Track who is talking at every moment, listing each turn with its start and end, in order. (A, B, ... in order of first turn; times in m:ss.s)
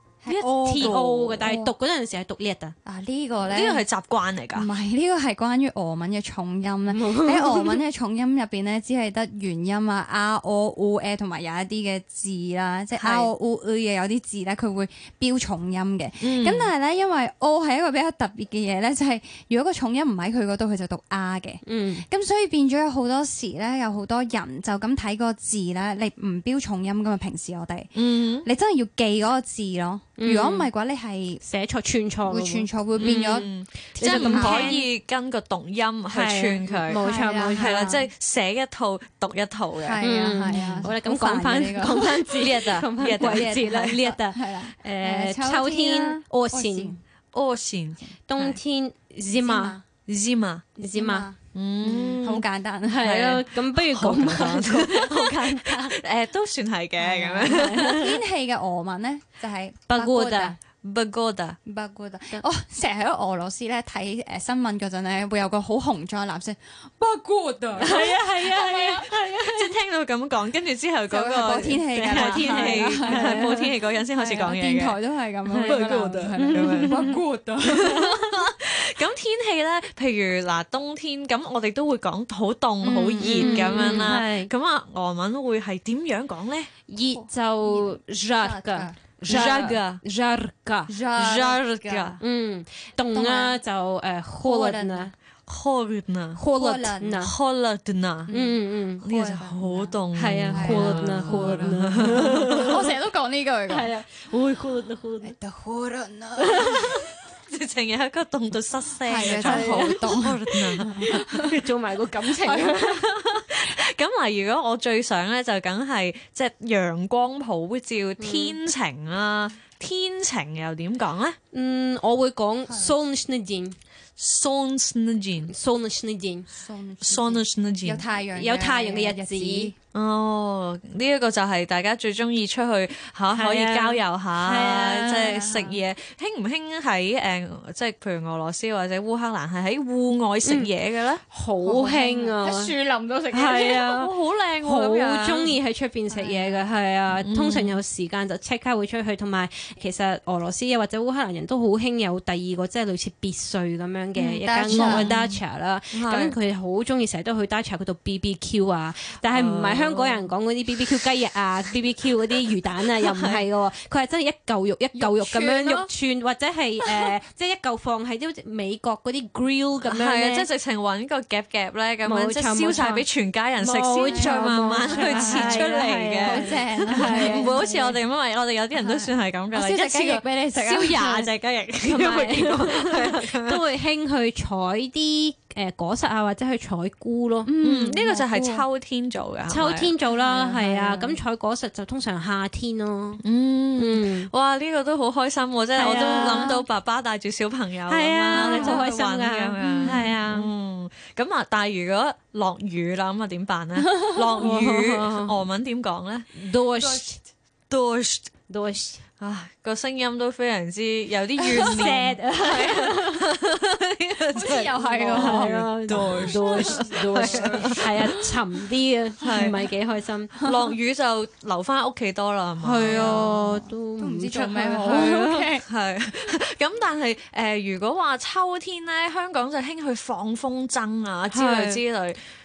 0:00.2-0:01.7 A
0:00.2-0:01.1 B
0:00.4-0:02.7 C
0:02.8-0:03.8 A
0:03.4-0:04.7 B
0:04.5-0:31.4 A
0:06.9-0:07.8 C
0:13.0-0:13.3 B
0:16.2-0:16.7 B
0:21.6-0:22.0 C
0:28.0-0:28.5 B
0:30.2-0:30.7 C
0:31.4-0:34.8 C
0:32.2-0:33.5 A
0:33.0-0:37.0 B
0:34.0-0:34.8 A
0:36.1-0:38.0 C
0:37.0-0:38.0 A
0:37.6-0:40.0 B
0:39.8-0:42.3 A
0:40.0-0:47.0 C
0:40.5-0:40.9 B
0:42.3-0:44.0 B
0:43.2-0:47.0 A
0:47.3-0:48.6 B
0:48.3-0:49.8 C
0:49.4-0:49.8 A
0:50.1-0:50.7 B
0:50.8-0:51.3 C
0:50.9-0:53.2 A
0:51.5-0:52.4 B
0:52.9-0:56.0 C
0:53.0-0:58.1 B
0:57.0-1:00.6 A
0:57.4-0:58.1 C
0:59.9-1:00.5 C
1:00.8-1:01.6 B
1:01.6-1:09.1 A
1:07.8-1:09.7 C
1:07.8-1:15.0 B
1:11.1-1:18.2 A
1:12.0-1:13.7 C
1:15.5-1:17.2 C
1:15.6-1:26.7 B
1:17.7-1:18.1 C
1:22.9-1:24.1 A
1:23.1-1:24.5 C
1:26.9-1:30.9 C
1:27.1-1:29.7 A
1:29.3-1:30.0 B
1:30.9-1:32.2 A
1:31.2-1:32.2 B
1:32.2-1:35.1 C
1:33.1-1:33.6 A
1:34.4-1:35.1 A
1:35.5-1:36.4 B
1:36.4-1:37.3 C
1:36.5-1:37.3 A
1:37.2-1:38.3 B
1:38.3-1:40.0 A
1:38.3-1:39.0 C
1:39.0-1:42.8 B
1:40.1-1:42.9 C
1:40.5-1:43.9 A
1:43.7-1:45.3 C
1:45.2-1:47.0 A
1:46.4-1:47.0 C
1:47.5-1:51.2 B
1:49.0-1:51.5 A
1:49.2-1:53.0 C
1:52.4-1:52.8 A
1:52.8-2:01.4 B
1:58.2-1:58.6 C
2:01.5-2:03.8 C
2:02.7-2:02.9 A
2:04.2-2:05.5 B
2:05.5-2:06.5 C
2:06.5-2:09.7 A
2:07.0-2:08.0 B
2:08.3-2:09.7 C
2:09.9-2:21.2 B
2:13.3-2:15.3 C
2:14.5-2:15.8 A
2:21.3-2:22.7 C
2:21.6-2:23.7 A
2:23.3-2:24.1 C
2:23.4-2:25.5 B
2:24.6-2:50.5 C
2:26.1-2:26.6 A
2:27.2-2:27.8 B
2:34.4-2:35.1 A
2:34.7-2:35.4 B
2:35.9-2:36.3 B
2:39.3-2:40.2 B
2:43.0-2:43.4 B
2:44.9-2:45.9 A
2:46.8-2:47.1 A
2:49.9-3:03.6 B
2:52.0-2:53.0 C
2:53.6-2:57.6 C
2:54.0-2:58.0 A
2:58.8-3:01.3 A
3:01.8-3:07.5 C
3:07.4-3:08.6 A
3:07.6-3:09.9 B
3:09.5-3:13.2 C
3:10.1-3:11.2 A
3:13.2-3:26.3 B
3:13.8-3:14.3 C
3:15.8-3:16.6 C
3:15.9-3:16.5 A
3:17.9-3:20.5 C
3:18.3-3:19.1 A
3:19.6-3:20.1 A
3:23.9-3:24.2 A
3:24.4-3:25.4 C
3:26.3-3:27.2 C
3:26.8-3:27.1 A
3:27.7-3:28.3 B
3:28.5-3:29.0 C
3:29.2-3:38.1 B
3:31.4-3:31.9 A
3:31.5-3:33.2 C
3:34.3-3:38.2 A
3:35.1-3:40.4 C
3:39.2-3:39.6 B
3:40.4-3:43.1 B
3:42.6-3:45.4 C
3:42.7-3:45.6 A
3:44.9-3:52.2 B
3:51.3-3:51.8 C